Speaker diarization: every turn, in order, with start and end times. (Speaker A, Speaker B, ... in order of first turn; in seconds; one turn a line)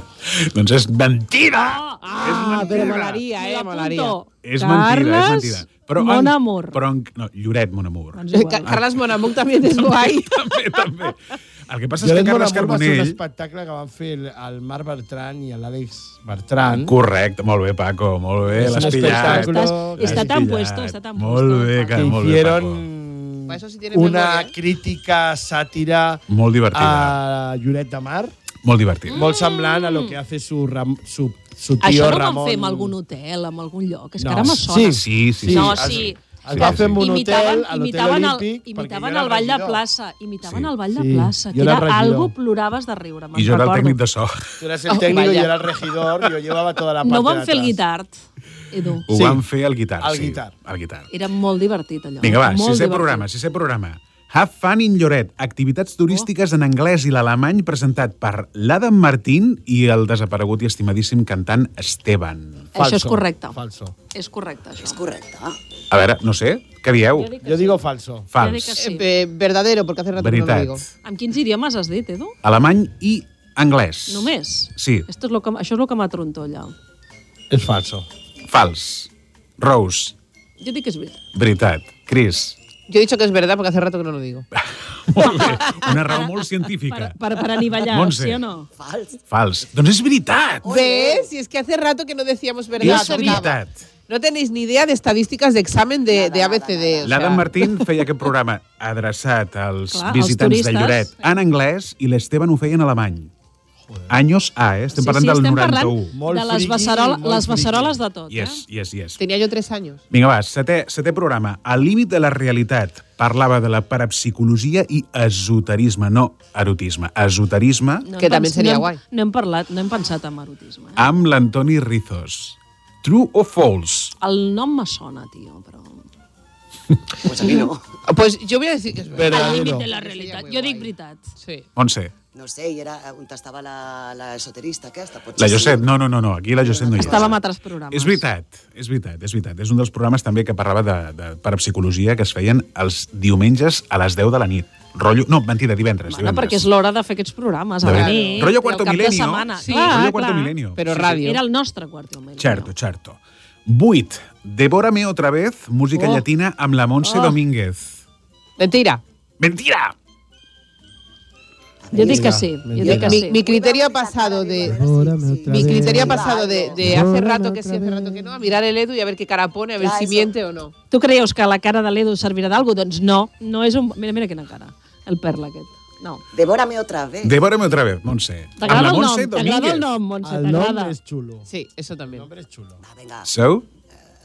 Speaker A: 0.2-3.2
Speaker B: 1.6-6.8
Speaker C: 2.0-4.2
Speaker A: 4.4-9.2
Speaker B: 8.2-8.7
Speaker C: 8.3-10.8
Speaker A: 9.8-13.2
Speaker D: 12.0-16.9
Speaker A: 16.8-22.9
Speaker D: 18.5-20.4
Speaker B: 18.7-22.1
Speaker D: 21.9-28.3
Speaker C: 23.5-24.5
Speaker A: 26.3-27.2
Speaker A: 28.6-29.2
Speaker D: 29.1-33.0
Speaker B: 29.1-30.2
Speaker B: 31.8-44.0
Speaker D: 34.2-39.8
Speaker A: 34.5-37.0
Speaker A: 40.4-40.7
Speaker D: 40.9-42.3
Speaker A: 43.4-44.6
Speaker D: 44.6-47.8
Speaker C: 44.9-45.5
Speaker B: 47.0-48.1
Speaker B: 48.7-49.1
Speaker A: 49.1-51.1
Speaker D: 49.1-49.4
Speaker D: 50.0-50.5
Speaker B: 51.1-53.2
Speaker A: 52.2-62.7
Speaker D: 62.7-63.9
Speaker B: 62.8-63.6
Speaker B: 64.1-65.0
Speaker E: 64.8-65.6
Speaker A: 65.9-67.3
Speaker B: 67.1-67.8
Speaker D: 67.4-68.3
Speaker A: 68.3-68.8
Speaker B: 68.4-69.1
Speaker C: 68.8-70.8
Speaker A: 70.2-70.9
Speaker B: 71.0-72.3
Speaker A: 72.4-75.1
Speaker B: 74.1-76.7
Speaker D: 77.5-78.1
Speaker A: 78.5-80.2
Speaker B: 80.6-81.2
Speaker A: 81.3-82.6
Speaker C: 82.9-84.5
Speaker A: 84.6-87.2
Speaker B: 86.9-88.7
Speaker A: 87.7-88.4
Speaker E: 88.8-89.2
Speaker A: 89.3-90.7
Speaker E: 90.6-91.3
Speaker C: 90.7-97.5
Speaker B: 92.8-93.4
Speaker A: 92.8-93.8
Speaker E: 96.1-97.4
Speaker A: 97.0-103.3
Speaker B: 99.9-101.1
Speaker D: 103.9-104.1
Speaker A: 104.1-106.1
Speaker B: 105.0-108.6
Speaker D: 106.1-108.0
Speaker A: 108.3-109.2
Speaker C: 109.2-110.0
Speaker A: 110.1-118.1
Speaker B: 118.0-121.0
Speaker C: 118.2-119.0
Speaker A: 121.0-124.1
Speaker B: 124.2-126.0
Speaker E: 127.2-127.8
Speaker C: 128.1-131.7
Speaker D: 129.1-129.9
Speaker B: 129.3-131.3
Speaker A: 131.8-132.1
Speaker E: 132.3-135.9
Speaker A: 135.4-137.4
Speaker E: 136.6-137.4
Speaker B: 137.0-138.2
Speaker A: 137.9-146.7
Speaker B: 146.1-152.7
Speaker A: 147.8-151.2
Speaker C: 147.8-148.8
Speaker C: 149.6-150.1
Speaker C: 150.8-151.4
Speaker A: 152.4-158.0
Speaker B: 157.0-157.4
Speaker C: 158.6-159.0
Speaker A: 159.4-159.9
Speaker E: 161.8-167.0
Speaker B: 161.9-163.4
Speaker D: 161.9-163.2
Speaker C: 162.8-164.8
Speaker D: 164.6-168.4
Speaker C: 165.5-170.7
Speaker E: 169.8-170.3
Speaker B: 170.9-176.2
Speaker E: 176.3-177.4
Speaker A: 177.2-179.9
Speaker B: 178.6-180.9
Speaker D: 180.2-181.5
Speaker C: 181.5-182.3
Speaker D: 182.1-182.8
Speaker E: 182.8-183.3
Speaker A: 183.2-183.7